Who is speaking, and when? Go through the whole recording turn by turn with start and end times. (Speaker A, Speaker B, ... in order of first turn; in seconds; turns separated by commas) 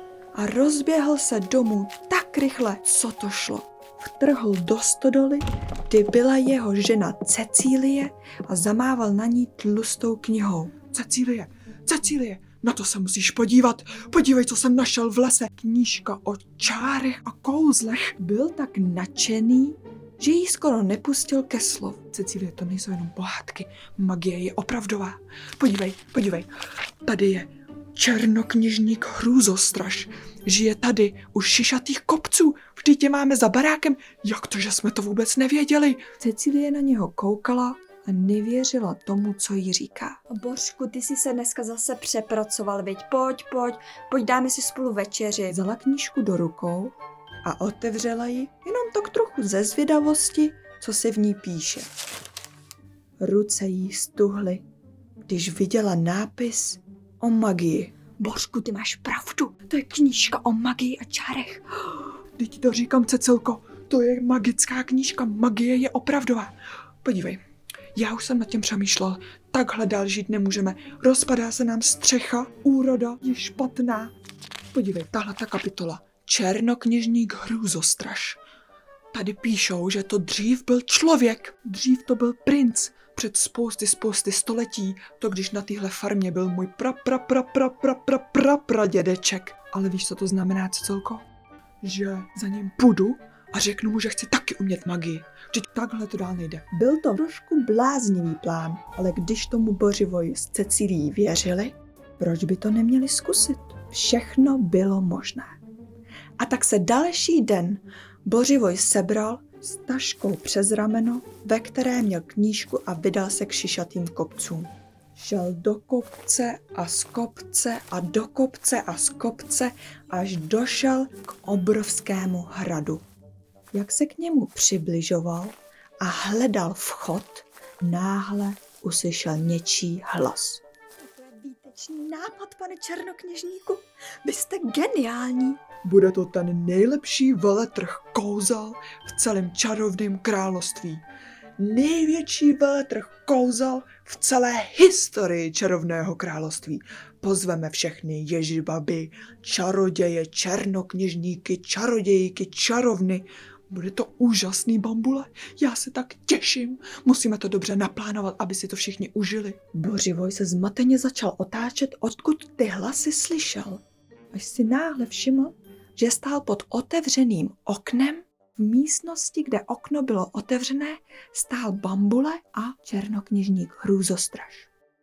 Speaker A: 0.3-10.9, Speaker B: 10.9-18.1, Speaker A: 18.1-22.1, Speaker B: 22.1-26.5, Speaker B: 27.0-36.1, Speaker A: 36.2-51.9, Speaker A: 53.2-54.6, Speaker A: 55.3-62.1, Speaker B: 62.4-67.4, Speaker B: 68.0-74.1, Speaker B: 74.7-78.4, Speaker A: 76.1-76.9, Speaker B: 79.1-91.2, Speaker B: 91.8-96.6, Speaker A: 96.6-105.5, Speaker A: 106.4-123.0, Speaker A: 123.7-135.7, Speaker B: 135.8-141.0, Speaker B: 141.6-148.1, Speaker A: 142.4-143.4, Speaker A: 146.7-149.2, Speaker B: 149.2-150.3, Speaker A: 150.1-152.5, Speaker B: 151.6-159.6, Speaker A: 159.6-163.8, Speaker A: 164.3-174.7